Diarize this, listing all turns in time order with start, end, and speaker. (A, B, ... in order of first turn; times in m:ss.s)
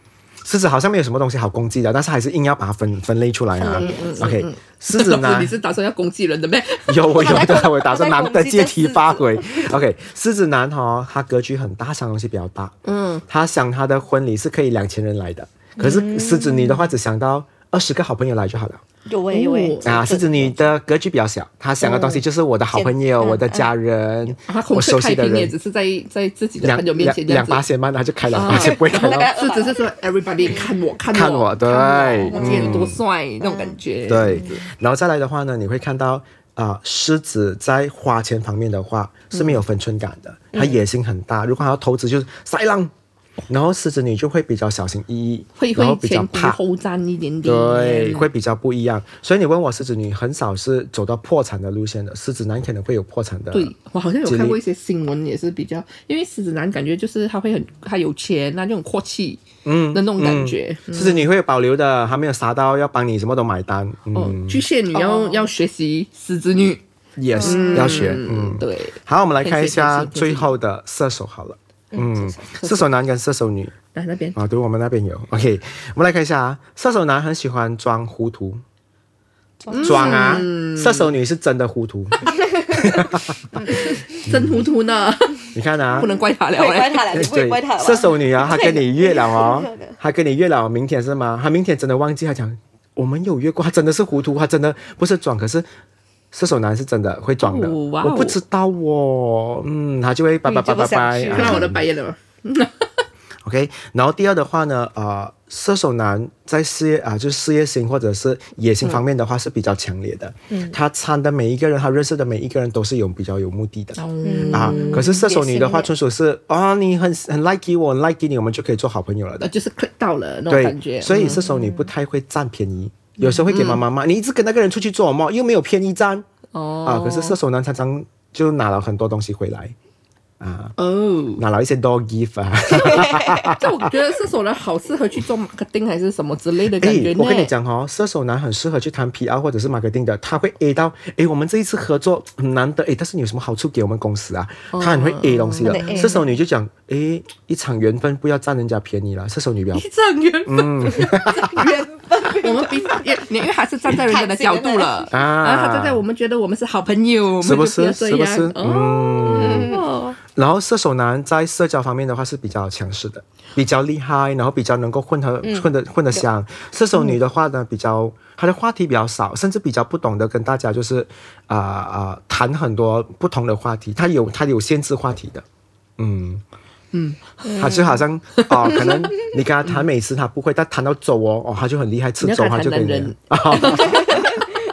0:00.4-0:05.6 A
0:03.5-0:04.4 B
0:03.7-0:07.6 C
0:06.9-0:18.8 A
0:07.1-0:09.7 B
0:12.8-0:13.2 C
0:15.8-0:16.9 B
0:19.0-0:20.7 B
0:19.3-0:19.9 C
0:19.8-0:25.5 A
0:21.8-0:22.2 C
0:22.7-0:23.7 B
0:24.5-0:27.6 C
0:26.6-0:29.3 A
0:28.3-0:34.6 C
0:28.4-0:30.7 B
0:31.1-0:33.0 A
0:31.6-0:34.6 B
0:34.1-0:42.9 A
0:39.3-0:39.6 C
0:43.5-0:46.6 A
0:45.6-0:48.3 C
0:47.4-0:53.7 A
0:53.5-1:01.3 C
0:54.2-0:54.6 A
0:59.6-1:04.7 A
1:04.1-1:06.8 C
1:04.9-1:05.4 B
1:07.2-1:13.7 A
1:07.3-1:08.2 B
1:07.4-1:10.5 C
1:11.9-1:12.4 B
1:12.5-1:12.9 C
1:13.9-1:14.4 C
1:14.3-1:18.6 A
1:19.6-1:20.4 B
1:19.7-1:21.2 C
1:19.8-1:23.6 A
1:22.3-1:22.9 B
1:23.6-1:27.1 C
1:24.3-1:24.6 A
1:25.5-1:26.1 A
1:26.5-1:30.0 B
1:27.1-1:35.7 A
1:36.3-1:41.8 A
1:37.4-1:38.4 C
1:40.4-1:41.7 B
1:41.2-1:42.9 C
1:43.4-1:59.5 A
1:50.5-1:50.8 B
1:54.0-1:55.2 C
1:54.2-1:55.9 B
1:59.4-2:01.4 C
2:00.5-2:06.2 A
2:01.3-2:01.9 B
2:03.2-2:03.8 C
2:06.5-2:07.4 C
2:06.8-2:09.7 A
2:10.4-2:10.7 A
2:10.8-2:11.4 C
2:11.4-2:13.8 A
2:12.8-2:13.4 B
2:13.5-2:17.5 C
2:16.7-2:29.8 A
2:24.7-2:26.2 C
2:25.6-2:26.3 B
2:29.7-2:40.1 C
2:30.4-2:31.7 A
2:31.2-2:33.0 B
2:33.9-2:35.1 B
2:35.1-2:36.0 A
2:37.4-2:39.7 A
2:39.2-2:40.2 B
2:40.3-2:55.4 A
2:45.4-2:46.2 B
2:56.0-2:56.4 A
2:56.9-2:57.4 C
2:57.4-2:58.0 B
2:57.5-3:04.1 A
2:58.3-2:59.9 C
3:02.2-3:04.5 C
3:03.9-3:04.3 B